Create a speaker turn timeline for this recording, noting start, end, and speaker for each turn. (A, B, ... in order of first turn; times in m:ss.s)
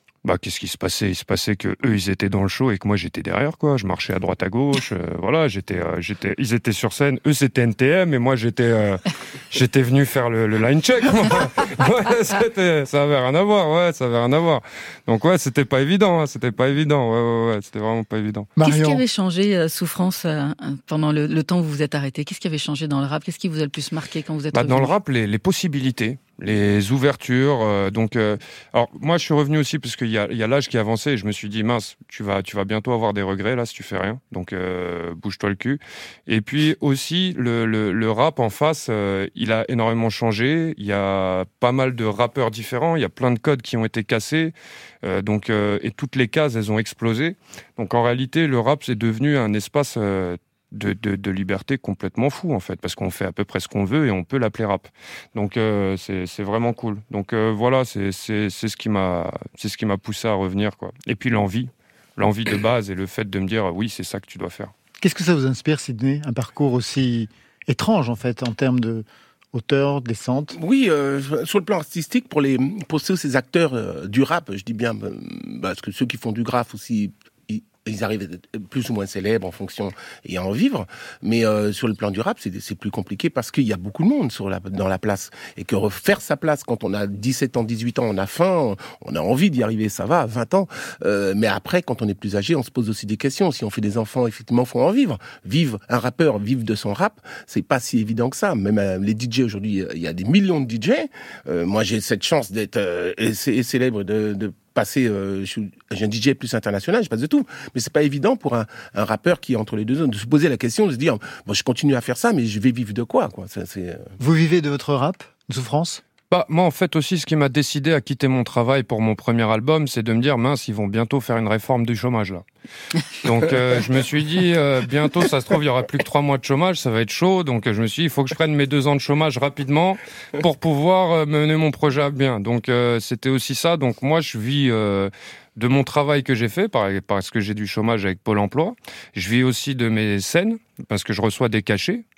0:00.2-0:18.5 A
0:18.6-0:19.0 B
0:18.6-0:24.9 C
0:24.5-1:04.7 A
1:05.0-1:10.6 B
1:10.5-1:54.1 D
1:54.2-1:56.0 B
1:56.3-2:02.4 A
2:03.2-2:22.0 A